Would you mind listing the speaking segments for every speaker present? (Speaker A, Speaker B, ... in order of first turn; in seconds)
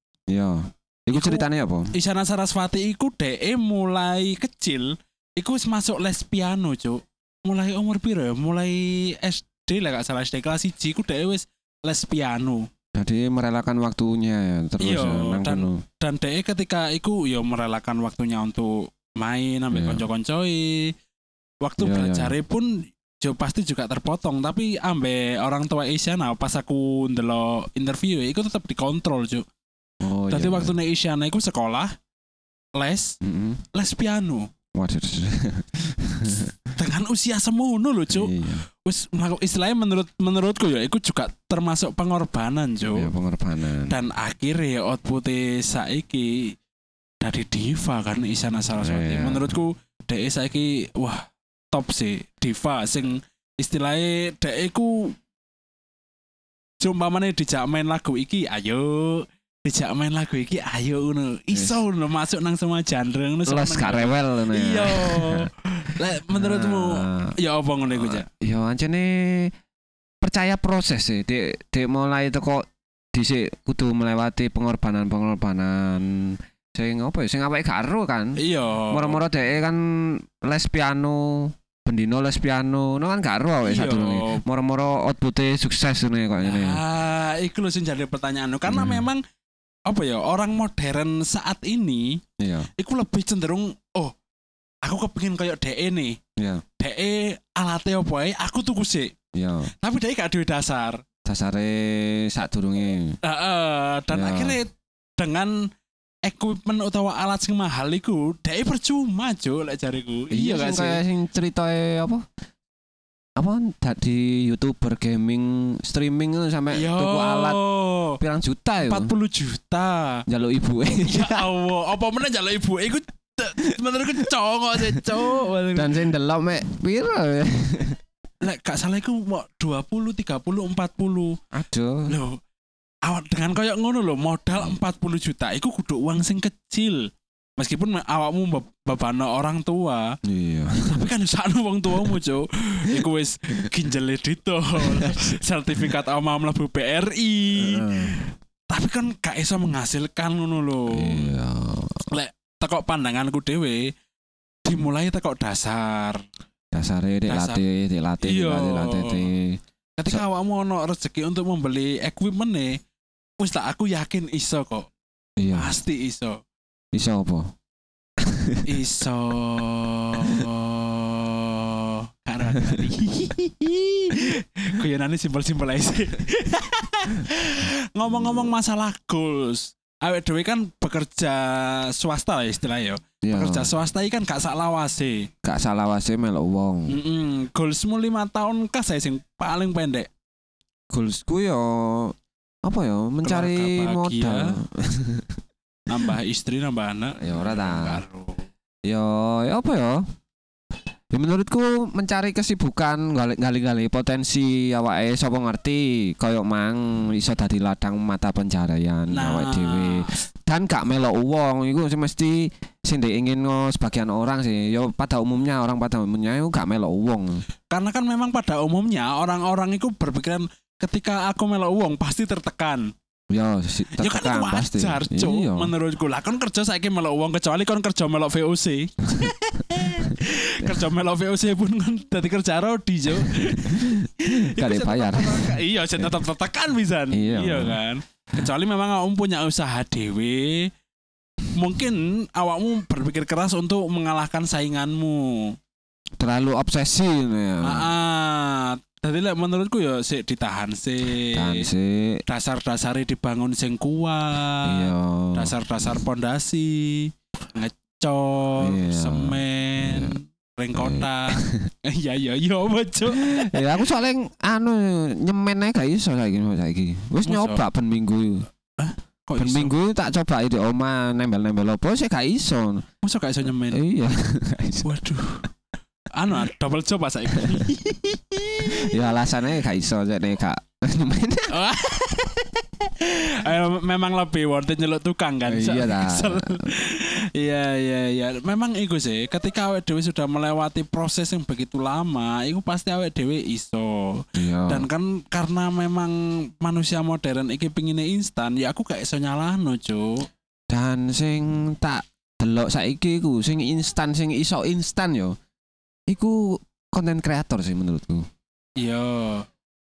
Speaker A: 0.3-1.9, 13.0-15.8, 19.7-20.1, 21.8-22.3, 30.0-30.8, 33.2-33.6, 34.7-36.5, 38.1-38.6, 42.9-43.9, 48.8-49.6, 61.5-61.8, 63.5-65.5, 66.3-67.3, 68.0-69.5, 70.2-78.4, 78.9-86.8, 88.7-89.1, 92.4-92.7, 96.4-96.6, 99.3-99.7, 101.2-103.2, 104.1-104.6, 110.3-112.2, 113.4-117.6, 118.2-119.1, 120.3-121.5, 125.8-128.0, 131.5-132.1, 140.2-141.1, 144.8-145.3, 147.6-148.2, 150.9-152.1, 156.7-160.2, 165.4-165.7, 166.9-167.5, 168.2-168.6, 178.1-178.5, 183.2-183.7, 185.4-187.0, 190.9-195.4, 197.2-198.0, 198.8-200.1, 201.1-217.4, 223.3-225.7, 233.2-236.1, 237.1-237.8, 246.2-247.9, 251.3-252.2, 254.6-255.5, 258.6-260.1, 260.8-261.7, 263.1-268.5, 269.4-272.9, 273.7-275.0, 278.6-281.5, 285.5-286.8, 294.4-294.9, 300.7-305.4, 306.1-308.3
Speaker B: 1.1-12.6, 14.8-20.9, 21.6-22.7, 23.2-29.4, 30.3-31.9, 32.8-33.2, 33.7-34.5, 36.8-43.1, 43.9-46.5, 47.2-55.1, 56.8-68.3, 78.4-79.2, 83.6-84.4, 86.4-89.2, 89.9-92.2, 92.8-94.1, 94.8-96.1, 96.8-99.1, 99.8-101.0, 103.2-105.5, 106.2-111.0, 116.7-118.2, 118.8-120.2, 121.1-126.0, 128.4-131.4, 132.1-132.4, 133.1-137.0, 137.6-140.1, 140.8-151.3, 152.1-153.9, 154.7-156.2, 157.3-157.6, 158.2-159.3, 160.0-162.8, 163.4-164.9, 165.6-166.4, 168.7-185.2, 186.9-190.1, 193.2-194.5, 195.9-198.4, 209.1-210.2, 217.7-222.9, 223.9-240.7, 241.6-245.5, 247.6-251.7, 252.3-263.6, 267.2-267.6, 268.8-269.7, 273.0-273.8, 274.9-275.5, 276.1-278.6, 281.5-300.3, 308.8-309.5